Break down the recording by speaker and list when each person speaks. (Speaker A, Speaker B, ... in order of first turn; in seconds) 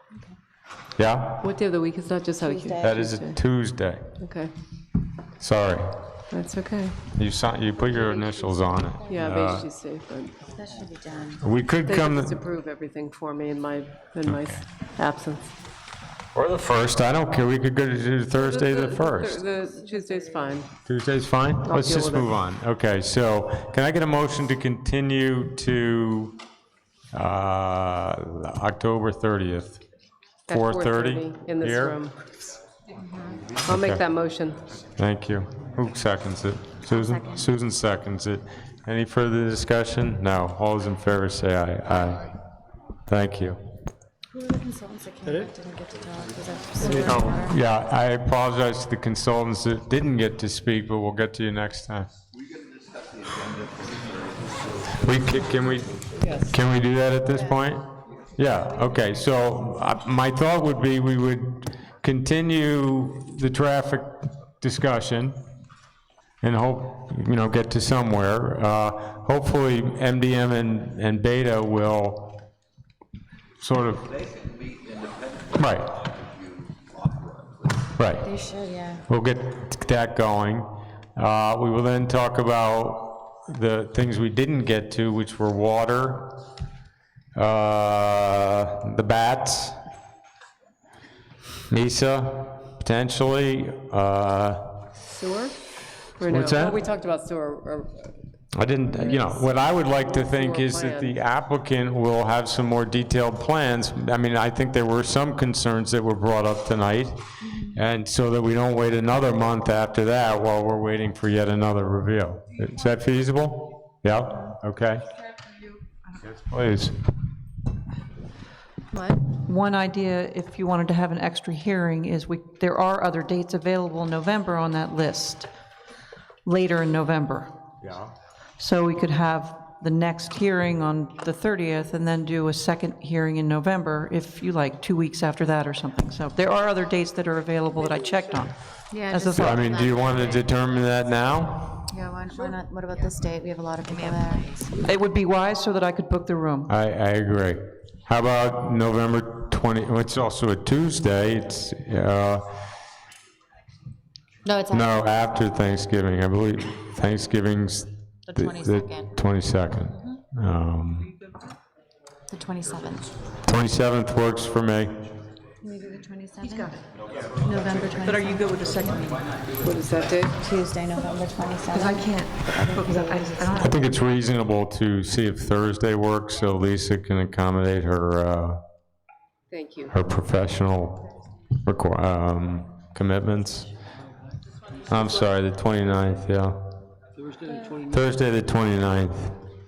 Speaker A: 1.0-1.4, 2.8-4.0, 5.4-6.0, 7.1-9.7, 11.4-12.4, 14.2-14.6, 16.3-19.4, 20.9-26.4, 27.1-29.8, 30.5-32.0, 33.7-34.0, 35.0-42.3, 43.1-43.6, 46.8-52.1, 54.9-57.8, 58.3-65.4, 66.4-72.4, 73.6-74.1, 75.5-76.0, 77.9-78.3, 79.1-86.3, 87.3-89.8, 91.7-94.8, 96.3-96.8, 98.5-115.0, 116.2-117.0, 127.8-128.1, 139.3-141.9, 146.7-152.5, 154.7-161.1, 163.4-165.0, 173.5-178.6, 179.9-181.0, 181.6-183.7, 184.8-186.8, 187.8-189.4
Speaker B: 1.4-3.4, 4.2-4.5, 6.3-7.0, 9.0-10.3, 11.8-15.5, 18.3-20.7, 21.6-22.3, 30.5-32.1, 33.6-34.6, 56.2-56.5, 95.0-95.5, 96.2-98.1, 98.9-101.2, 169.6-170.3, 179.5-179.9
Speaker C: 2.4-3.0, 10.5-11.4, 19.8-20.3, 36.9-37.4, 44.3-47.5, 78.2-79.0, 138.9-141.0, 141.9-144.7, 154.4-155.1, 158.3-159.1, 162.3-163.1, 165.6-166.8, 167.4-169.0, 170.3-173.8
Speaker D: 119.2-125.5, 126.5-127.5, 128.6-139.6, 144.8-146.7, 166.4-166.8, 168.0-169.2, 171.7-173.8